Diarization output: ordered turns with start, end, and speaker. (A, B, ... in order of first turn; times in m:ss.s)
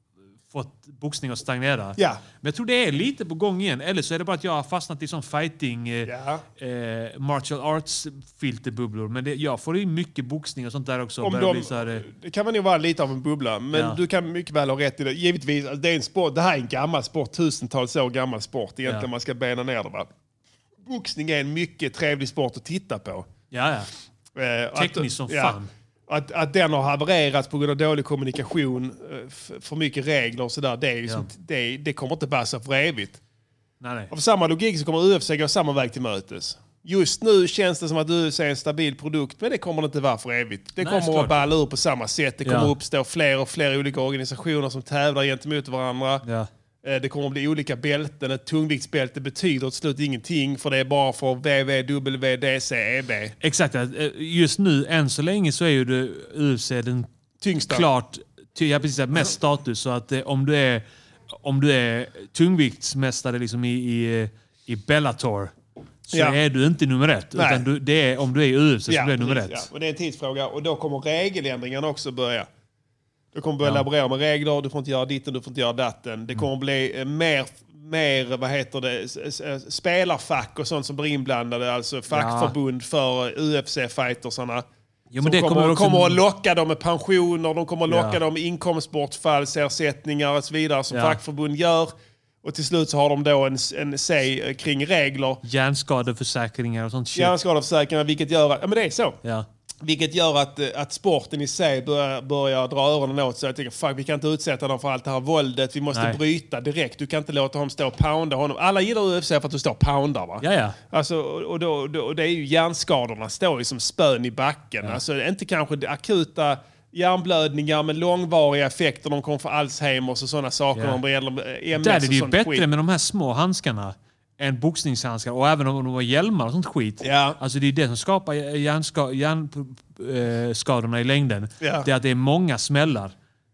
0:00.5-0:12.0 A
0:02.0-0:02.2 B
0:06.0-0:06.4 B
0:11.2-0:20.1 B
0:13.7-0:14.0 A
0:20.8-0:23.3 B
0:23.5-0:23.9 A
0:24.4-0:25.6 B
0:24.8-0:25.7 A
0:26.1-0:33.2 B
0:33.8-0:34.1 A
0:34.1-0:46.2 B
0:40.8-0:41.4 A
0:42.4-0:42.7 A
0:46.2-0:46.5 A
0:46.8-0:53.3 B
0:53.4-0:57.1 A
0:57.4-0:57.9 B
0:57.7-1:00.8 A
1:01.4-1:05.5 A
1:06.1-1:09.7 A
1:06.1-1:06.4 B
1:07.4-1:07.6 B
1:08.9-1:12.5 B
1:13.3-1:24.6 B
1:22.1-1:22.5 A
1:25.1-1:26.2 A
1:25.2-1:35.4 B
1:27.9-1:28.2 A
1:30.9-1:31.2 A
1:35.4-1:37.3 A
1:37.1-1:39.2 B
1:39.8-2:02.6 B
1:45.9-1:46.2 A
1:50.4-1:50.8 A
2:00.7-2:01.0 A
2:01.7-2:13.1 A
2:07.0-2:07.4 B
2:11.6-2:11.9 B